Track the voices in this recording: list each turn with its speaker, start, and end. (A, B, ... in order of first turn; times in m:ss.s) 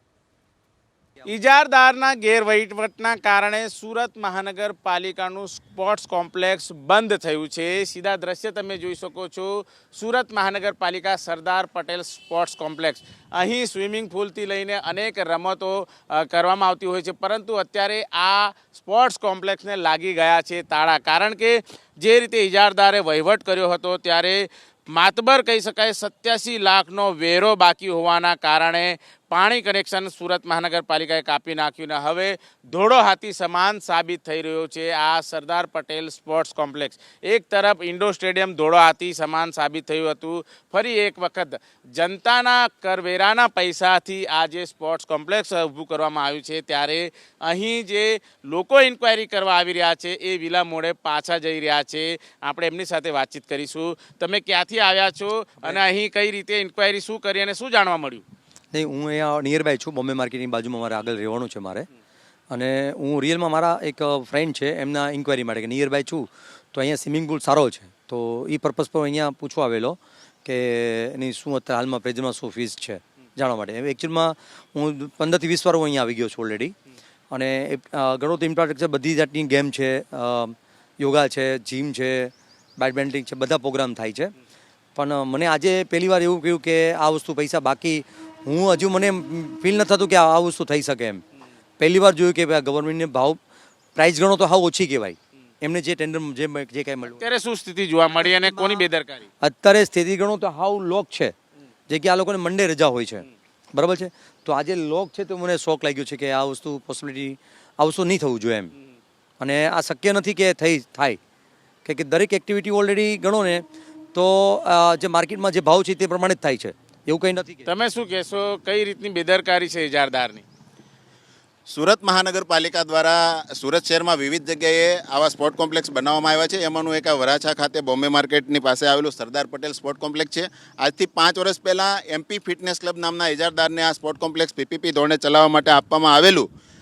0:01.2-0:58.2 A
0:58.7-1:01.9 B
1:02.5-1:16.8 B
1:17.3-1:24.3 B
1:25.0-1:31.2 B
1:31.8-1:33.4 B
1:34.0-1:37.2 B
1:37.2-1:39.3 A
1:38.3-1:38.9 B
1:39.4-1:41.3 B
1:41.9-1:48.7 B
1:49.4-1:51.2 B
1:51.8-1:57.7 B
1:57.7-2:00.4 A
2:01.7-2:16.5 C